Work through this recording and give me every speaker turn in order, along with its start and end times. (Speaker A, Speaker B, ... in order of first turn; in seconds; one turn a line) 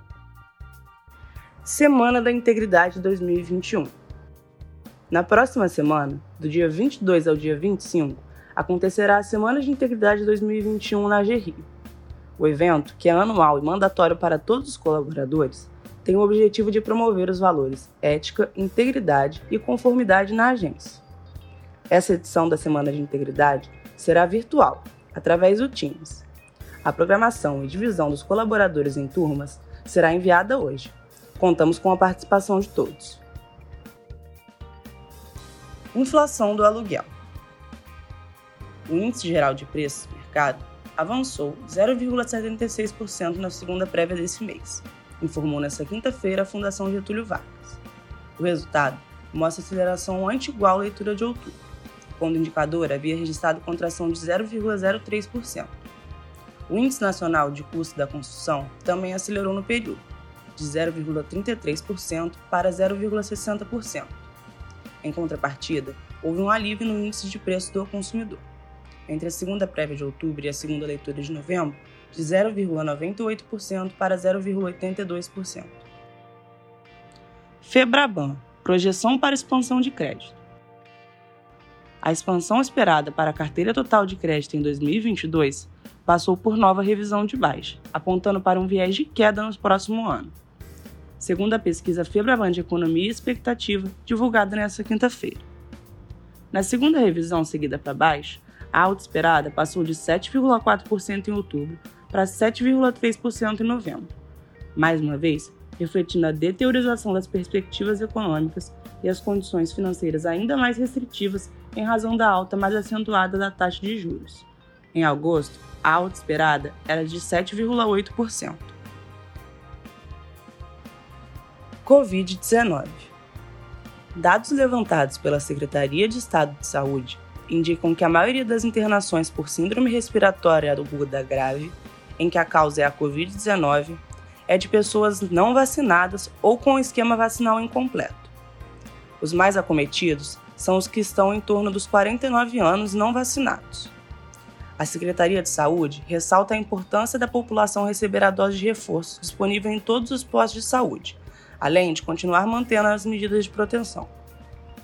Speaker A: 1.6-3.9
Speaker A: 5.1-11.7
Speaker A: 12.4-21.0
Speaker A: 21.9-26.2
Speaker A: 26.8-33.2
Speaker A: 35.9-37.1
Speaker A: 38.9-47.8
Speaker A: 48.4-51.6
Speaker A: 52.2-55.7
Speaker A: 56.7-60.0
Speaker A: 60.5-64.2
Speaker A: 65.0-68.4
Speaker A: 69.1-75.8
Speaker A: 77.6-80.4
Speaker A: 82.0-90.3
Speaker A: 91.2-95.5
Speaker A: 96.5-104.1
Speaker A: 104.7-118.8
Speaker A: 121.8-123.1
Speaker A: 124.1-138.3
Speaker A: 139.2-143.9
Speaker A: 144.8-154.1